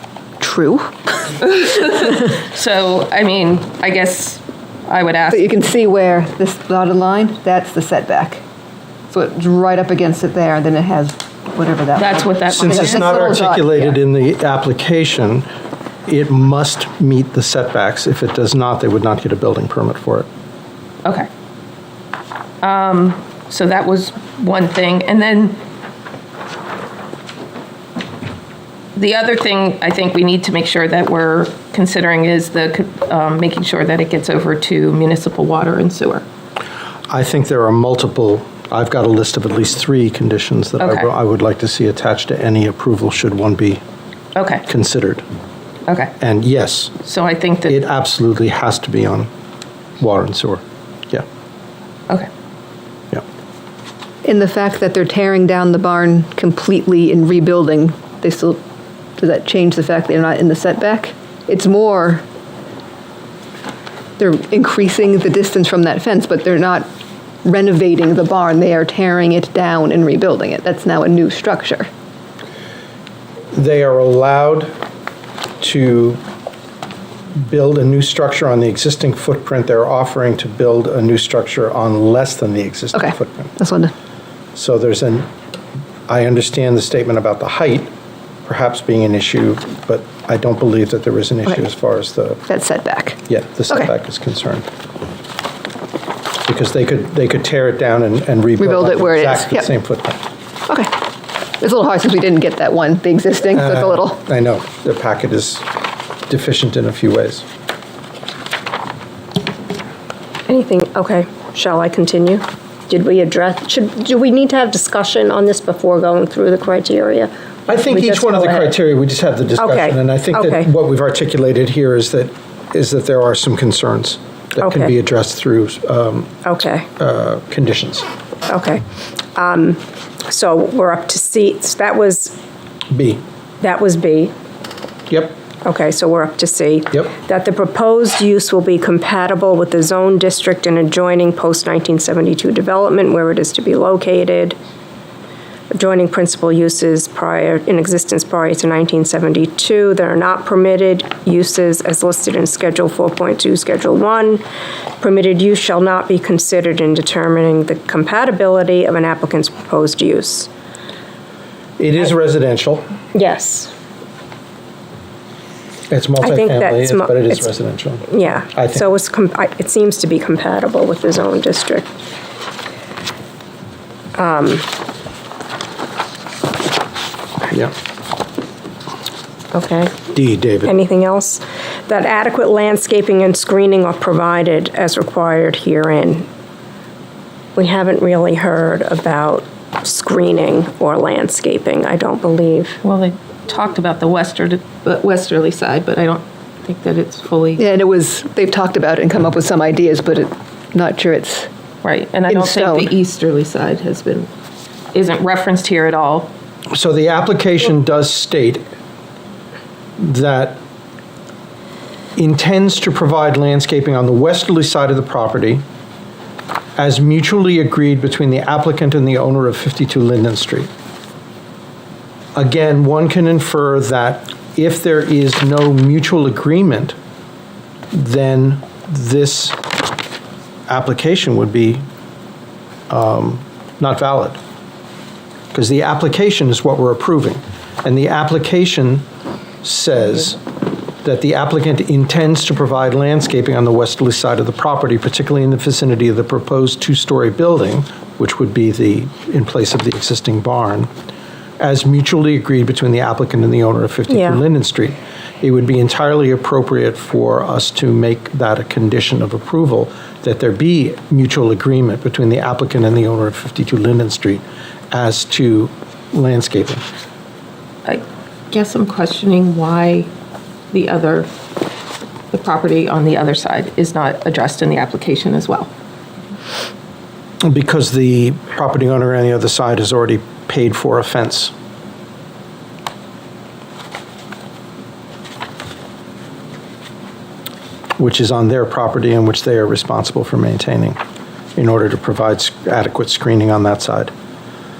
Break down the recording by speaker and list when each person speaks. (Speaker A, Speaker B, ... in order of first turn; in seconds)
Speaker A: 0.4-0.9, 5.3-8.4, 9.1-13.9, 54.2-58.6, 59.2-62.2, 64.2-66.9, 67.4-71.9, 82.9-83.9, 92.5-93.2, 98.6-99.7, 101.6-104.2, 197.6-201.5, 202.3-202.9
Speaker B: 1.4-5.5, 11.9-13.4, 22.6-25.6, 28.9-36.2, 40.8-41.1, 44.3-44.6, 45.9-46.1, 47.0-47.8, 192.8-197.7, 201.8-204.3, 204.9-206.3, 267.9-270.1, 270.7-271.3, 272.3-275.7
Speaker C: 12.5-15.5, 16.1-20.3, 37.1-43.8, 44.6-45.2, 46.2-47.0, 47.7-49.3, 50.0-51.2, 73.5-74.7, 75.6-76.2, 77.3-83.5, 84.5-85.3, 86.1-87.9, 88.5-92.4, 93.3-94.7, 96.5-100.2, 103.5-105.6, 106.3-107.4, 117.7-126.4, 127.0-128.1, 132.9-133.2, 135.1-135.4, 161.8-162.9, 165.9-168.9, 180.1-180.7, 206.7-208.6, 210.0-210.6, 212.2-215.6, 216.8-220.7, 222.3-226.9, 227.9-229.6, 230.7-231.8, 232.9-234.4, 235.5-239.0, 239.6-240.4, 241.0-250.9, 251.6-266.8, 277.4-281.5, 288.0-291.0, 291.6-294.1
Speaker D: 110.5-118.7, 119.6-120.7, 124.6-124.9, 126.4-126.9, 128.5-128.8, 129.3-132.4, 133.6-134.3, 135.6-144.6, 145.7-154.4, 155.0-160.5, 163.1-163.7, 166.2-167.4, 168.1-171.9, 174.1-174.7, 179.5-180.0, 180.6-186.3, 187.5-192.8, 254.1-254.4